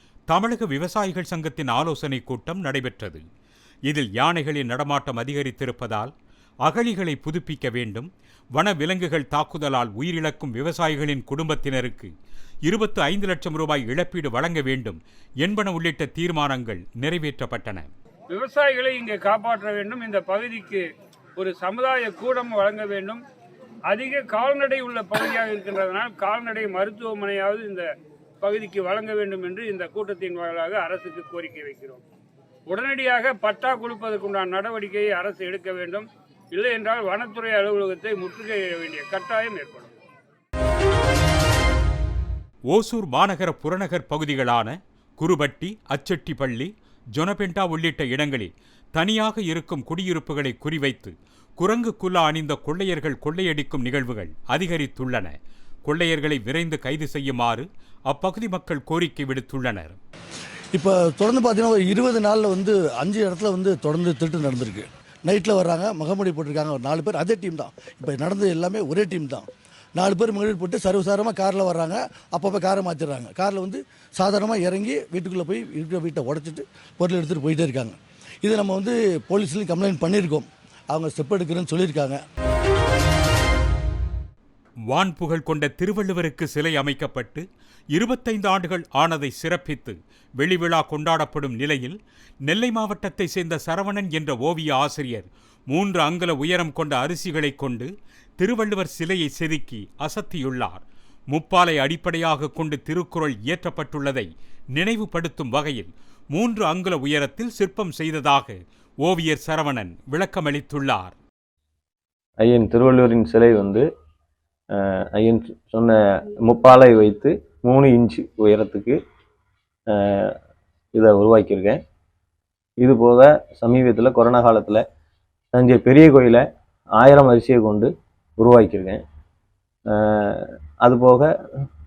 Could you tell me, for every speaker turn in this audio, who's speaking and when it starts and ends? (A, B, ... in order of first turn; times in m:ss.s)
0:00.3-0:03.2 A
0:03.9-0:06.1 A
0:06.6-0:12.1 A
0:12.7-0:17.9 A
0:18.3-0:23.2 B
0:23.9-0:27.9 B
0:28.4-0:32.0 B
0:32.7-0:40.0 B
0:42.7-0:55.3 A
0:55.9-1:00.0 A
1:00.8-1:09.5 C
1:10.0-1:22.2 C
1:24.9-1:51.2 A
1:52.4-1:53.9 D
1:54.8-1:59.0 D
1:59.9-2:00.3 D
2:01.0-2:01.8 D
2:02.8-2:04.8 D
2:05.5-2:06.4 D
2:07.0-2:09.0 D
2:09.9-2:11.3 D